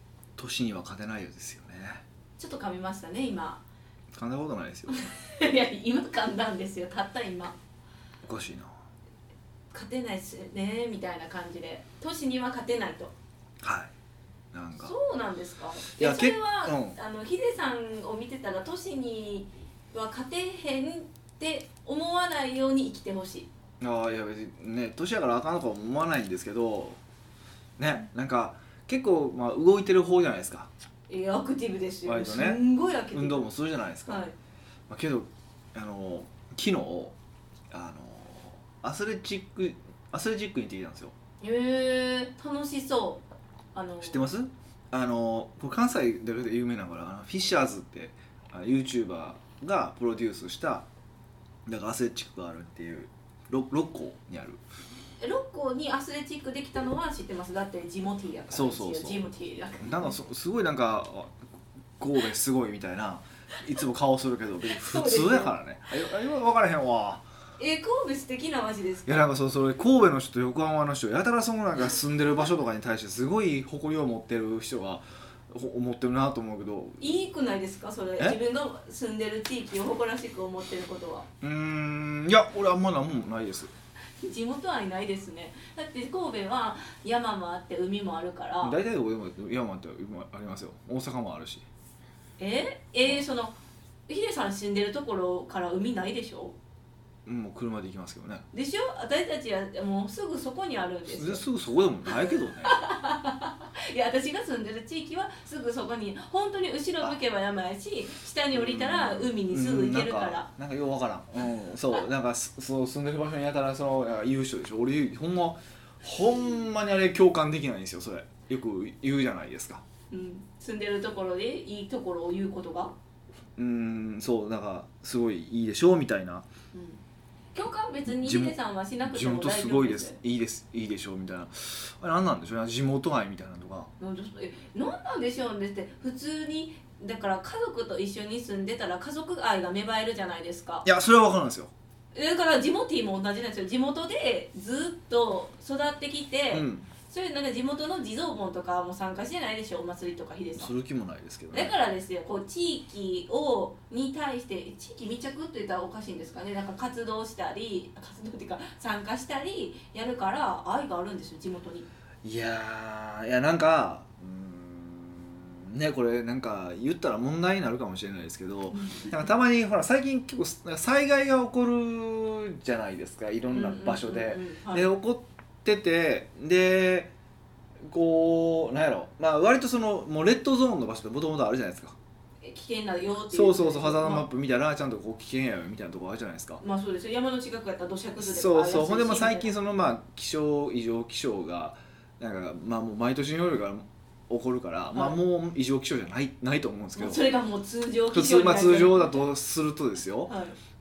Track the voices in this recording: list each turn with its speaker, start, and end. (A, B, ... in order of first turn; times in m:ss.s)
0:00.4-0:02.0 A
0:02.4-0:03.6 B
0:04.1-0:05.0 A
0:04.9-0:07.6 B
0:08.2-0:08.7 A
0:09.7-0:13.1 B
0:13.6-0:13.9 A
0:14.5-0:15.0 A
0:14.8-0:23.5 B
0:15.9-0:17.0 A
0:23.8-0:27.0 A
0:27.8-0:30.7 A
0:31.1-0:33.5 B
0:32.1-0:32.6 A
0:33.1-0:34.2 A
0:34.1-0:34.3 B
0:34.9-0:37.2 A
0:37.7-0:41.1 A
0:41.4-0:44.3 B
0:44.0-0:50.9 A
0:51.7-0:54.6 A
0:55.2-1:00.2 B
0:58.5-0:59.2 A
0:59.8-1:01.4 A
1:02.0-1:07.2 A
1:04.7-1:05.5 B
1:07.6-1:09.2 B
1:09.1-1:17.2 A
1:17.0-1:21.3 B
1:21.4-1:23.7 A
1:24.2-1:28.8 B
1:28.6-1:31.6 A
1:32.4-1:33.6 B
1:34.1-1:36.6 B
1:37.3-1:38.5 A
1:38.5-1:41.4 B
1:41.1-1:42.8 A
1:42.2-1:50.5 B
1:48.5-1:59.8 A
2:00.1-2:03.0 B
2:03.6-2:06.5 A
2:06.7-2:07.0 B
2:07.5-2:10.2 B
2:08.1-2:13.9 A
2:14.0-2:20.9 B
2:20.8-2:21.7 A
2:22.1-2:30.7 B
2:26.5-2:26.9 A
2:30.6-2:31.7 A
2:31.5-2:41.9 B
2:42.2-2:57.1 A
2:48.7-2:49.3 B
2:53.5-2:54.9 B
2:57.9-3:02.0 A
3:02.4-3:04.3 B
3:03.3-3:06.6 A
3:06.6-3:09.5 B
3:08.2-3:17.2 A
3:14.9-3:15.2 B
3:17.0-3:19.3 B
3:18.1-3:20.3 A
3:20.3-3:20.6 B